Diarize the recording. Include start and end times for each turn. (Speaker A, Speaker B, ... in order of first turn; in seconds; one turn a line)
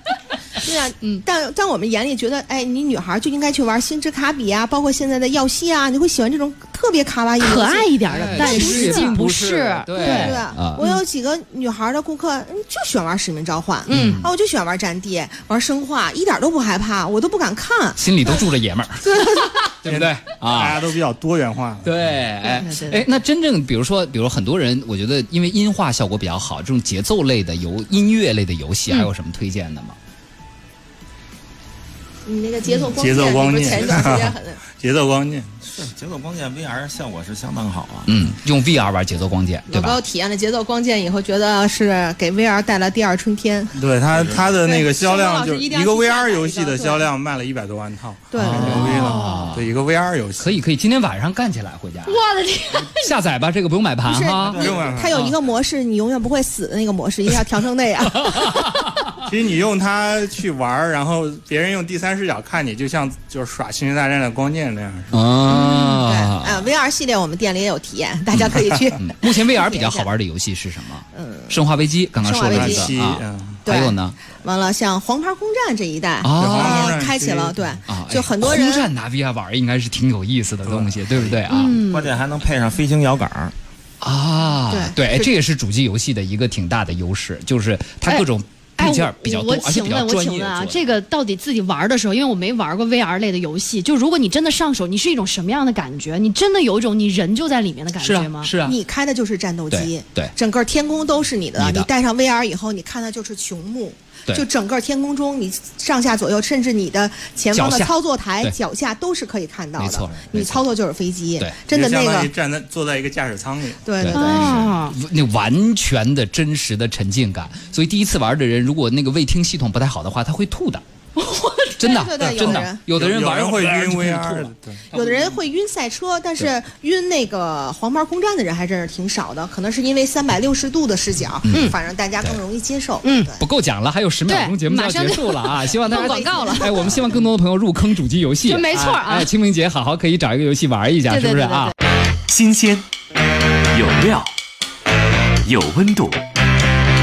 Speaker A: 0.6-9.2
Speaker B: 7.4-11.0
Speaker C: 8.1-10.8
Speaker A: 10.0-18.4
Speaker B: 13.9-14.2
Speaker C: 13.9-14.3
Speaker C: 18.0-19.1
Speaker A: 19.0-19.7
Speaker C: 19.8-20.8
Speaker D: 19.8-22.1
Speaker C: 21.9-30.0
Speaker A: 22.6-22.9
Speaker B: 22.6-22.9
Speaker A: 32.2-34.6
Speaker D: 32.9-35.6
Speaker E: 33.6-34.0
Speaker E: 35.6-38.1
Speaker C: 38.1-40.0
Speaker A: 39.7-43.8
Speaker D: 43.8-50.6
Speaker E: 44.1-44.6
Speaker A: 44.6-47.1
Speaker A: 48.3-49.2
Speaker C: 48.4-49.7
Speaker C: 50.4-52.2
Speaker B: 52.1-53.1
Speaker C: 52.8-55.3
Speaker A: 54.1-58.6
Speaker E: 54.5-55.1
Speaker D: 54.6-55.3
Speaker C: 58.3-59.2
Speaker D: 59.2-65.1
Speaker C: 65.1-66.7
Speaker A: 65.5-70.1
Speaker C: 68.4-74.2
Speaker A: 71.1-71.6
Speaker A: 72.2-73.0
Speaker D: 72.5-73.6
Speaker A: 73.6-78.9
Speaker C: 76.2-77.0
Speaker D: 76.4-77.9
Speaker C: 77.9-81.8
Speaker D: 80.6-81.5
Speaker B: 81.5-82.1
Speaker E: 81.8-83.5
Speaker C: 84.0-90.8
Speaker A: 84.7-85.3
Speaker B: 88.8-98.5
Speaker C: 98.0-98.8
Speaker A: 98.6-112.3
Speaker C: 99.7-100.3
Speaker C: 101.6-101.9
Speaker C: 107.5-108.6
Speaker C: 109.8-110.7
Speaker D: 111.7-113.9
Speaker A: 113.9-114.6
Speaker C: 114.0-120.8
Speaker B: 114.1-115.0
Speaker B: 121.2-122.1
Speaker C: 121.8-124.5
Speaker A: 121.9-122.8
Speaker D: 122.2-124.8
Speaker A: 124.9-133.5
Speaker E: 125.0-125.4
Speaker C: 131.4-132.4
Speaker B: 133.0-133.3
Speaker C: 133.4-141.7
Speaker B: 134.3-137.0
Speaker A: 135.9-137.0
Speaker B: 138.4-139.3
Speaker B: 141.1-141.7
Speaker F: 142.3-142.9
Speaker F: 143.7-144.3
Speaker F: 145.4-146.2